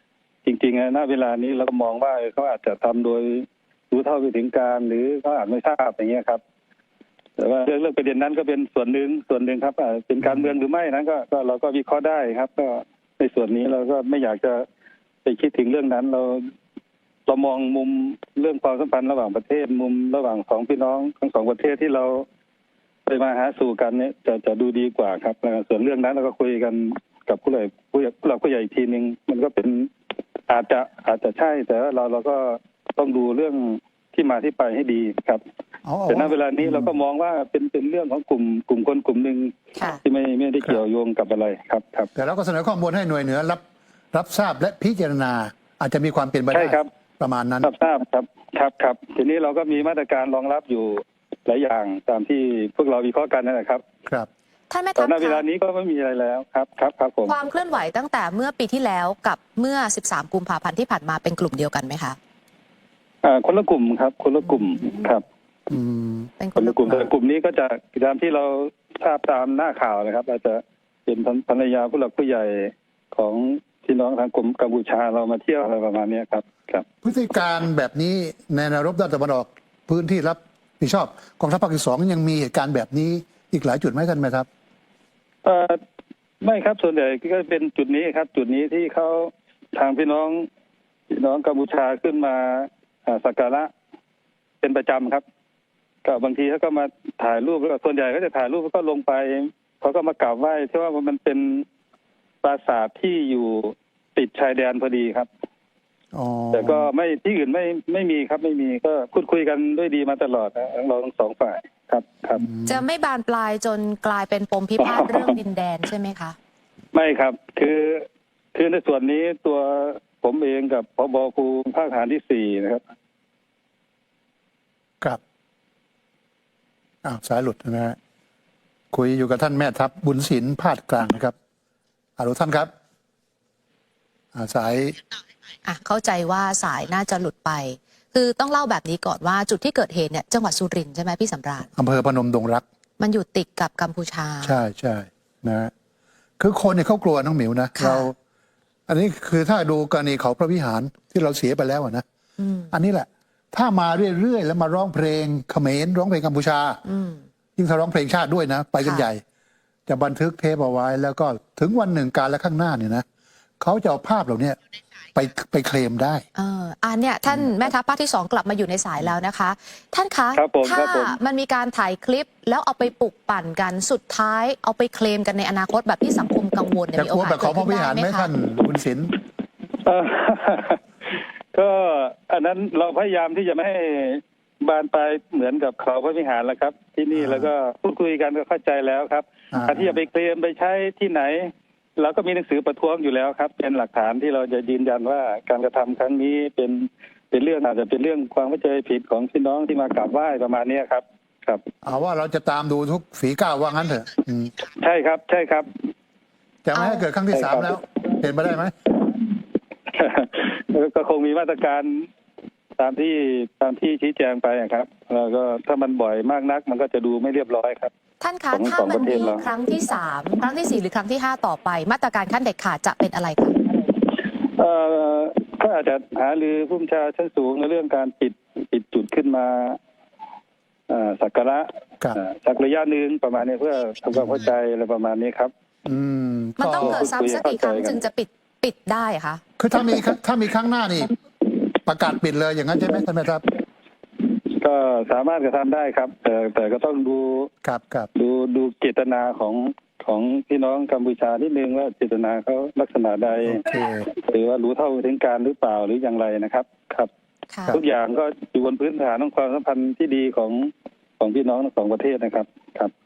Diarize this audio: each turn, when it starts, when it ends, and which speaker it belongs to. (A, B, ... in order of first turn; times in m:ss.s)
0:00.4-0:06.4 A
0:07.4-0:14.7 A
0:10.2-0:10.5 B
0:15.2-0:16.5 A
0:17.3-0:22.2 A
0:23.1-0:29.9 A
0:30.5-0:35.4 A
0:35.8-0:36.9 B
0:36.1-0:42.1 A
0:39.8-0:40.0 C
0:42.2-0:47.7 B
0:46.5-0:46.9 A
0:47.6-0:53.8 A
0:54.7-0:55.4 C
0:55.0-0:57.4 A
0:57.3-1:02.2 C
1:03.2-1:05.2 A
1:04.5-1:05.2 C
1:05.7-1:06.3 B
1:06.4-1:07.1 C
1:06.6-1:16.8 A
1:17.0-1:24.5 B
1:25.4-1:25.8 A
1:26.4-1:30.5 A
1:31.1-1:33.7 A
1:34.6-1:35.2 A
1:36.0-1:41.7 A
1:42.4-1:45.3 A
1:46.1-1:46.9 B
1:46.5-1:52.5 A
1:52.4-1:52.8 B
1:52.6-1:56.4 C
1:54.8-1:55.3 A
1:56.9-2:02.8 A
2:07.0-2:08.0 B
2:08.9-2:11.3 B
2:12.2-2:12.7 B
2:14.3-2:15.0 B
2:15.6-2:21.7 C
2:21.8-2:22.6 B
2:23.0-2:24.6 C
2:24.4-2:25.7 B
2:26.4-2:28.2 B
2:27.8-2:28.1 C
2:28.9-2:32.0 B
2:32.4-2:32.7 C
2:32.7-2:36.8 B
2:36.8-2:37.2 C
2:37.6-2:39.2 B
2:38.8-2:39.1 C
2:39.9-2:43.0 B
2:43.6-2:44.6 B
2:45.2-2:46.2 B
2:46.4-2:58.3 C
2:50.4-2:51.2 A
2:57.0-2:59.1 B
2:59.8-3:21.6 A
3:07.1-3:07.5 B
3:09.5-3:10.0 B
3:21.8-3:24.6 B
3:24.7-3:25.7 A
3:26.6-3:28.7 B
3:26.7-3:27.1 C
3:27.3-3:27.8 A
3:29.9-3:32.1 A
3:32.8-3:37.9 A
3:38.2-3:43.6 C
3:38.5-3:39.4 A
3:44.4-3:49.8 A
3:50.9-3:55.5 A
3:54.1-3:54.4 B
3:55.8-3:57.1 B
3:56.6-3:59.4 C
3:56.8-3:58.0 A
3:59.6-4:01.1 B
4:01.8-4:03.5 B
4:04.6-4:07.5 A
4:07.6-4:08.1 B
4:08.2-4:17.1 A
4:13.4-4:14.1 B
4:17.5-4:17.8 C
4:17.7-4:22.9 A